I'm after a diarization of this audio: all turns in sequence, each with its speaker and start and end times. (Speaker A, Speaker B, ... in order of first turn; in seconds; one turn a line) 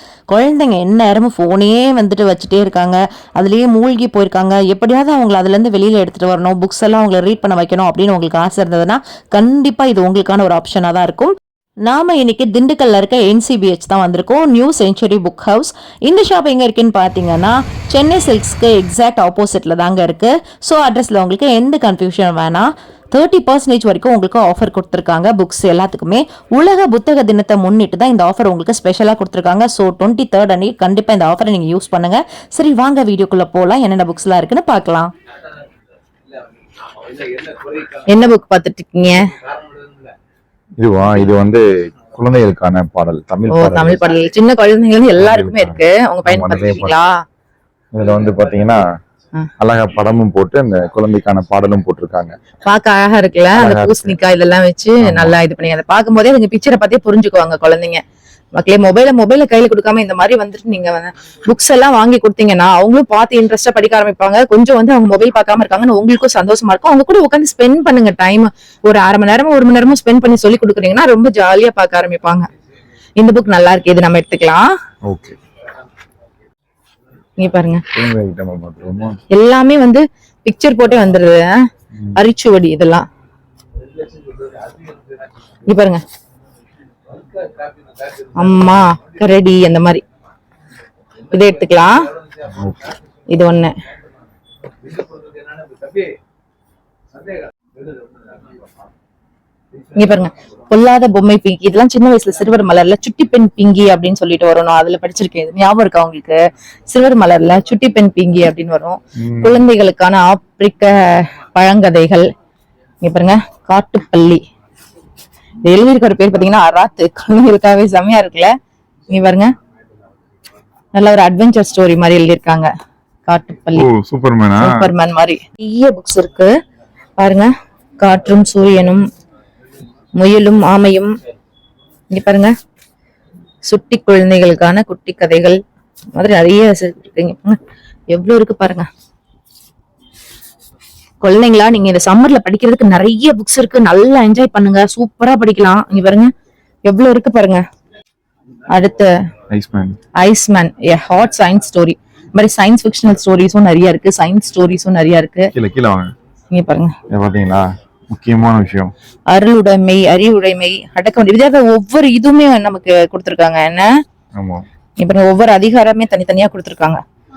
Speaker A: 0.3-11.3
Speaker A: 11.8-35.1
Speaker B: 38.1-39.3
Speaker C: 40.8-44.0
Speaker B: 43.5-47.1
Speaker C: 45.1-46.9
Speaker C: 47.9-48.8
Speaker C: 49.6-52.4
Speaker B: 52.6-58.0
Speaker C: 53.5-54.1
Speaker C: 55.0-55.4
Speaker B: 58.6-72.5
Speaker B: 73.2-74.7
Speaker C: 75.1-75.3
Speaker B: 77.4-77.8
Speaker C: 77.9-79.2
Speaker B: 79.3-81.6
Speaker B: 82.1-83.0
Speaker B: 85.7-86.0
Speaker B: 88.3-90.0
Speaker B: 91.3-91.9
Speaker B: 93.3-93.7
Speaker B: 99.9-112.3
Speaker C: 109.2-109.6
Speaker B: 113.0-114.4
Speaker B: 115.6-118.5
Speaker B: 119.1-119.5
Speaker B: 120.9-122.7
Speaker B: 123.3-123.9
Speaker C: 123.8-124.9
Speaker B: 124.5-126.5
Speaker B: 127.2-127.5
Speaker B: 128.0-129.0
Speaker B: 130.2-131.1
Speaker B: 132.1-132.5
Speaker B: 133.7-135.6
Speaker B: 136.2-137.6
Speaker B: 138.1-138.8
Speaker B: 141.2-146.3
Speaker B: 146.8-147.6
Speaker B: 148.7-149.1
Speaker C: 149.5-150.0
Speaker B: 150.2-155.5
Speaker C: 155.5-156.1
Speaker B: 156.5-156.9
Speaker C: 157.1-158.9
Speaker B: 159.3-163.9
Speaker C: 164.3-164.6
Speaker B: 165.0-167.0